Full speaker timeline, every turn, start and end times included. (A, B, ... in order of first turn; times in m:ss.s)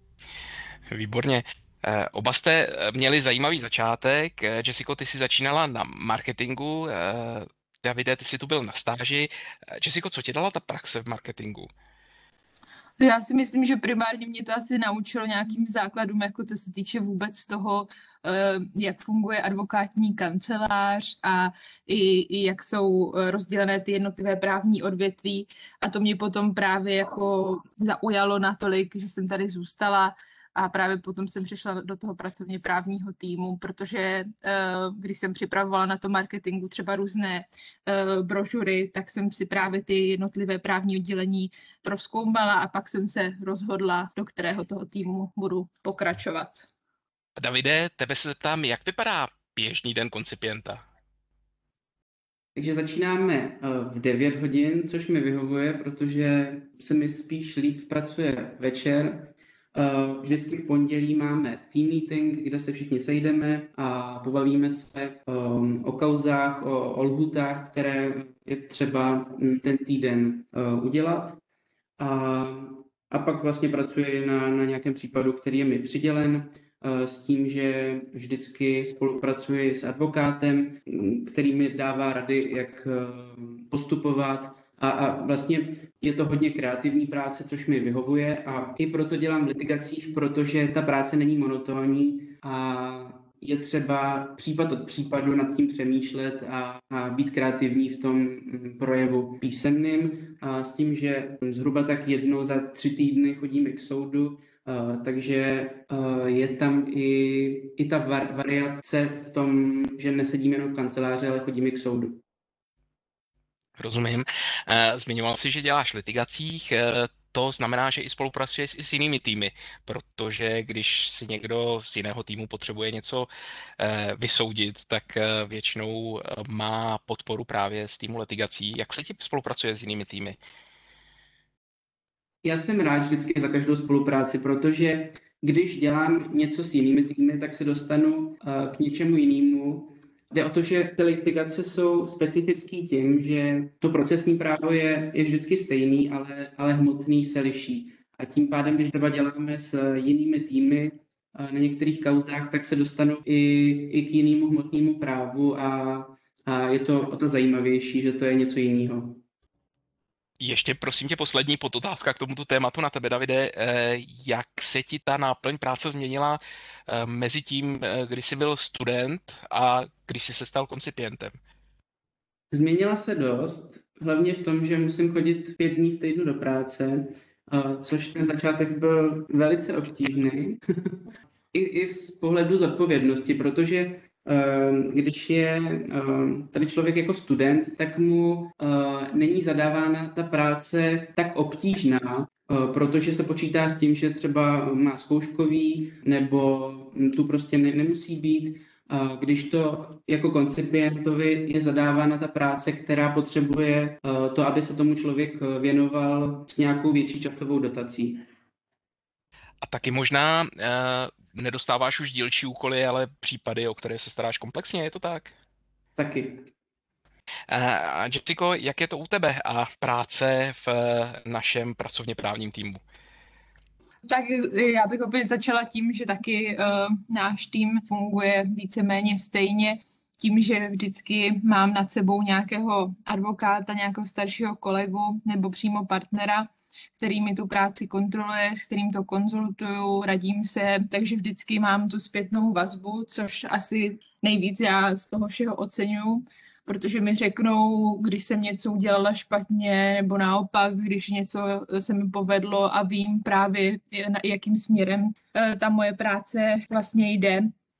0:00.9-0:11.7 A
0:13.0-0:46.7 B
0:47.4-0:50.8 A
0:52.5-1:11.4 C
1:12.0-1:52.2 C
1:53.8-2:10.4 A
2:12.4-2:39.2 C
2:40.4-2:51.3 A
2:52.5-3:00.6 C
3:01.5-3:28.2 C
3:29.6-3:35.3 A
3:36.0-3:36.5 C
3:37.5-3:42.8 A
3:44.0-4:17.5 B